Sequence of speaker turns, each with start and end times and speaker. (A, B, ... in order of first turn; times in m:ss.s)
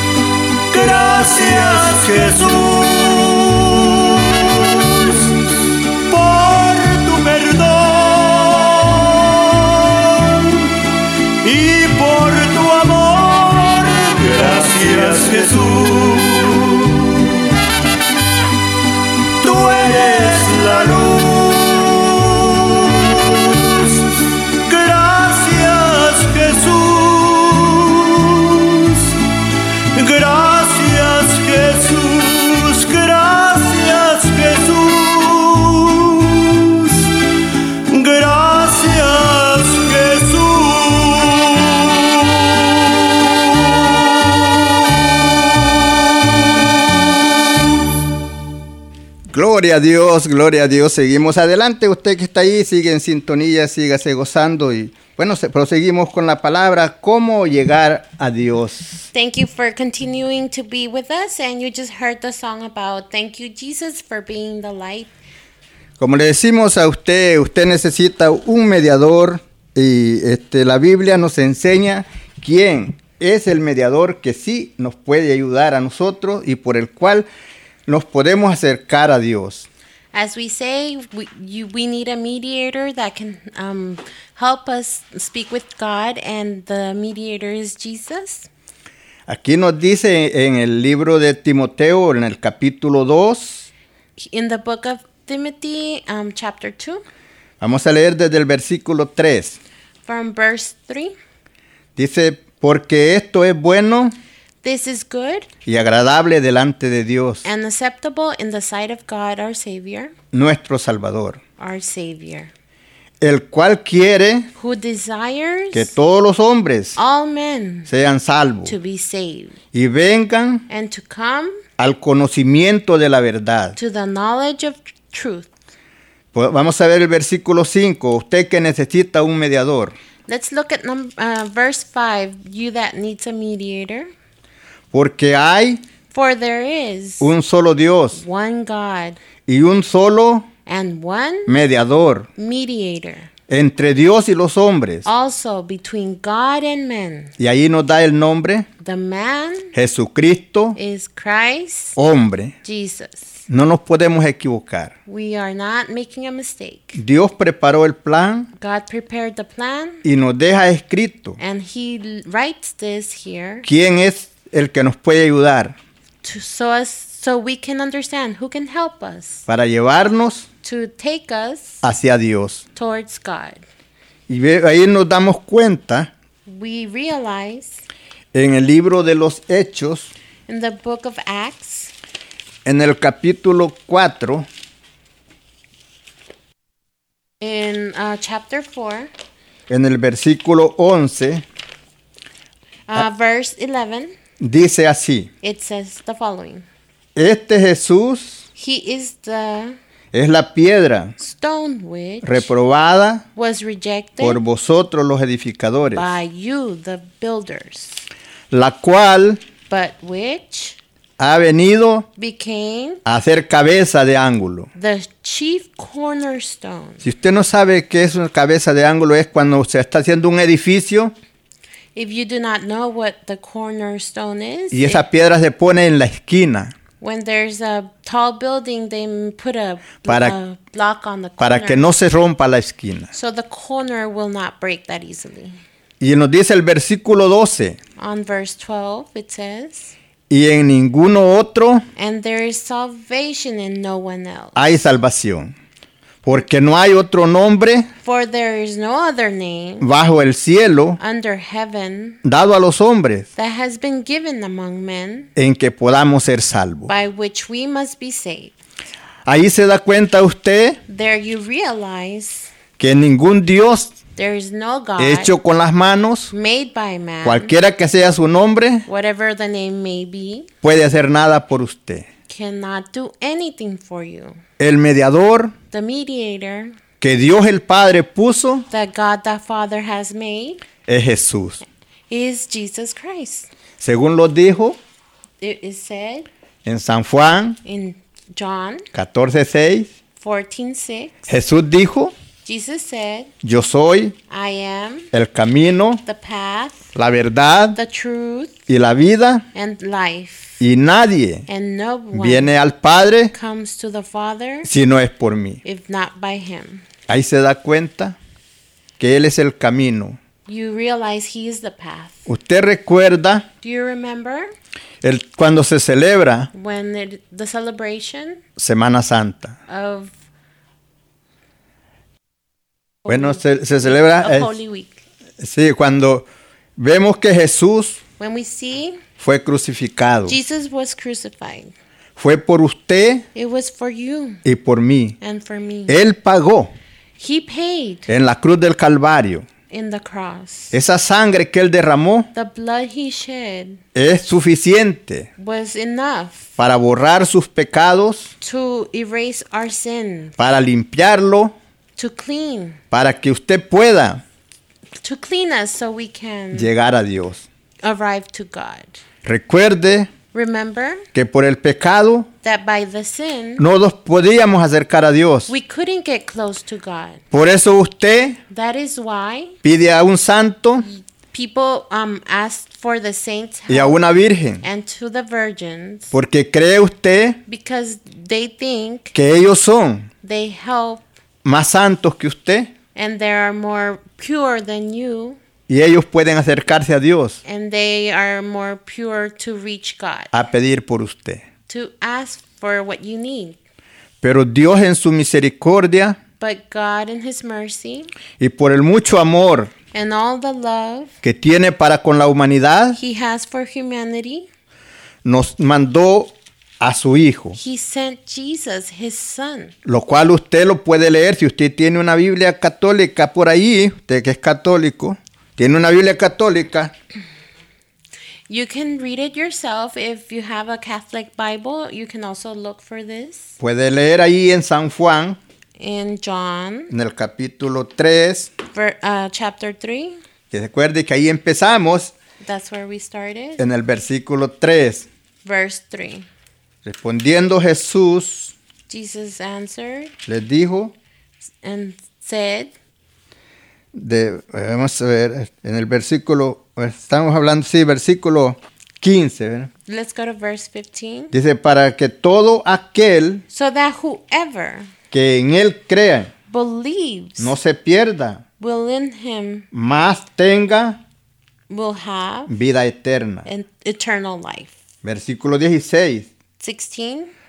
0:00.7-0:10.9 A
0:11.4-0:17.5 A
0:19.4-0:29.3 A
0:29.9-0:37.1 A
0:37.9-0:42.8 A
0:49.3-0:59.1 B
0:59.1-1:05.1 C
1:06.0-1:17.3 B
1:17.9-1:19.7 B
1:20.1-1:28.5 C
1:29.3-1:33.7 B
1:34.2-1:37.0 C
1:37.6-1:39.6 B
1:40.0-1:41.1 C
1:42.0-1:44.2 B
1:44.6-1:45.5 C
1:45.6-1:47.4 B
1:47.4-1:50.2 C
1:50.3-1:51.4 B
1:51.6-1:52.5 C
1:53.2-1:54.5 B
1:54.6-1:55.9 C
1:55.7-1:57.0 B
1:57.0-1:57.9 C
1:57.9-1:58.8 B
1:58.6-1:59.6 C
1:59.7-2:00.7 B
2:00.7-2:01.6 C
2:01.8-2:03.8 B
2:03.8-2:05.5 C
2:06.3-2:10.0 B
2:10.3-2:14.1 C
2:14.9-2:15.8 B
2:16.1-2:17.3 C
2:17.2-2:18.2 B
2:18.1-2:19.2 C
2:19.5-2:20.5 B
2:20.7-2:21.6 C
2:21.5-2:22.3 B
2:22.4-2:23.3 C
2:23.5-2:25.1 B
2:25.0-2:27.4 C
2:27.4-2:28.7 B
2:28.8-2:29.7 C
2:29.7-2:30.8 B
2:30.8-2:32.0 C
2:32.0-2:32.6 B
2:32.6-2:33.4 C
2:33.5-2:34.9 B
2:35.1-2:37.0 C
2:37.0-2:38.5 B
2:38.6-2:40.0 C
2:40.0-2:41.4 B
2:41.4-2:43.7 C
2:43.6-2:45.8 B
2:46.2-2:49.5 C
2:49.5-2:50.5 B
2:50.6-2:51.8 C
2:51.8-2:52.6 B
2:52.8-2:53.6 C
2:54.3-2:56.1 B
2:56.5-2:57.8 C
2:58.3-3:00.1 B
3:00.5-3:01.9 C
3:02.6-3:04.5 B
3:07.4-3:09.1 C
3:09.7-3:11.4 B
3:12.9-3:14.1 C
3:14.4-3:15.3 B
3:15.4-3:16.6 C
3:17.2-3:18.4 B
3:18.6-3:19.8 C
3:20.1-3:21.2 B
3:21.2-3:22.5 C
3:22.2-3:23.3 B
3:23.4-3:24.4 C
3:24.2-3:26.2 B
3:25.9-3:28.1 C
3:28.5-3:29.4 B
3:29.7-3:30.8 C
3:31.2-3:32.1 B
3:32.2-3:33.0 C
3:33.1-3:34.7 B
3:34.8-3:37.0 C
3:37.0-3:41.1 B
3:42.0-3:45.1 C
3:44.7-3:46.8 B
3:47.0-3:51.8 C
3:50.0-3:50.4 B
3:51.4-3:53.1 B
3:53.1-3:55.6 C
3:56.0-3:57.8 B
3:58.0-3:59.9 C
4:00.3-4:01.9 B
4:02.0-4:04.7 C
4:04.6-4:05.5 B
4:06.2-4:07.9 B
4:08.0-4:09.9 C
4:09.8-4:11.0 B
4:11.0-4:12.2 C
4:12.2-4:13.3 B
4:13.4-4:15.3 C
4:15.4-4:16.9 B
4:16.9-4:18.5 C
4:19.3-4:20.8 B
4:20.9-4:22.5 C
4:22.8-4:24.0 B
4:24.2-4:25.4 C
4:25.0-4:26.3 B
4:26.3-4:27.5 C
4:27.2-4:28.9 B
4:28.9-4:30.5 C
4:30.6-4:32.1 B
4:32.3-4:34.4 C
4:34.6-4:35.5 B
4:35.7-4:36.8 C
4:37.0-4:38.7 B
4:38.7-4:40.6 C
4:40.9-4:41.6 B
4:42.1-4:43.5 C
4:43.8-4:44.8 B
4:45.4-4:46.3 C
4:46.6-4:47.6 B
4:47.6-4:48.9 C
4:48.9-4:49.9 B
4:50.2-4:51.3 C
4:51.3-4:52.1 B
4:52.4-4:53.3 C
4:53.4-4:54.2 B
4:54.3-4:55.1 C
4:55.1-4:56.0 B
4:56.0-4:56.9 C
4:57.0-4:57.8 B
4:57.8-4:58.6 C
4:58.7-4:59.5 B
4:59.5-5:00.6 C
5:00.6-5:01.5 B
5:01.5-5:02.5 C
5:02.1-5:03.3 B
5:03.3-5:04.7 C
5:04.6-5:05.6 B
5:05.6-5:06.9 C
5:07.1-5:08.2 B
5:09.0-5:10.2 B
5:10.5-5:12.3 C
5:12.3-5:13.5 B
5:13.6-5:14.5 C
5:15.0-5:16.5 B
5:16.5-5:18.4 C
5:18.6-5:19.6 B
5:19.7-5:20.1 C
5:23.0-5:25.0 C
5:23.1-5:24.5 B
5:25.4-5:26.3 B
5:26.8-5:28.0 B
5:28.2-5:29.0 C
5:29.2-5:30.4 B
5:30.3-5:31.7 C
5:32.2-5:33.3 B
5:33.4-5:34.4 C
5:34.4-5:35.2 B
5:35.2-5:36.0 C
5:35.9-5:36.7 B
5:37.2-5:38.1 C
5:38.1-5:39.5 B
5:39.7-5:40.7 C
5:40.7-5:42.3 B
5:42.3-5:43.8 C
5:44.0-5:45.3 B
5:45.4-5:46.5 C
5:46.6-5:48.3 B
5:48.4-5:50.4 C
5:50.4-5:51.6 B
5:52.0-5:52.8 C
5:52.9-5:54.2 B
5:55.0-5:56.7 C
5:56.5-5:57.5 B
5:57.8-5:59.0 C
5:59.2-6:00.1 B
6:00.3-6:01.1 C
6:01.1-6:02.3 B
6:02.4-6:03.6 C
6:03.6-6:05.5 B
6:05.5-6:07.2 C
6:07.3-6:08.4 B
6:08.5-6:09.6 C
6:09.6-6:10.9 B
6:10.8-6:14.0 C
6:13.7-6:14.6 B
6:14.6-6:16.1 C
6:16.1-6:17.4 B
6:17.5-6:19.2 C
6:19.1-6:20.1 B
6:20.2-6:21.0 C
6:21.4-6:22.7 B
6:23.0-6:25.4 C
6:25.7-6:27.4 B
6:27.4-6:30.3 C
6:30.3-6:31.4 B
6:31.7-6:33.6 C
6:34.2-6:36.2 B
6:36.4-6:38.1 C
6:38.4-6:39.7 B
6:39.9-6:41.1 C
6:41.2-6:43.0 B
6:43.0-6:44.5 C
6:45.2-6:47.6 B
6:47.6-6:49.8 C
6:49.8-6:56.9 B
6:58.5-7:03.6 C
7:03.6-7:05.4 B
7:05.8-7:06.9 C
7:06.9-7:08.5 B
7:08.7-7:10.2 C
7:10.5-7:12.1 B
7:12.4-7:13.7 C
7:13.6-7:15.1 B
7:15.4-7:16.3 C
7:16.8-7:18.6 B
7:18.9-7:20.1 C
7:20.3-7:20.9 B
7:21.6-7:22.7 C
7:23.9-7:29.7 B
7:29.9-7:31.3 C
7:31.3-7:33.4 B
7:33.5-7:34.9 C
7:35.1-7:36.3 B
7:36.5-7:37.6 C
7:37.4-7:38.4 B
7:38.6-7:39.7 C
7:39.7-7:41.0 B
7:41.7-7:42.5 C
7:42.5-7:43.5 B
7:43.4-7:44.7 C
7:45.0-7:46.3 B
7:46.6-7:47.3 C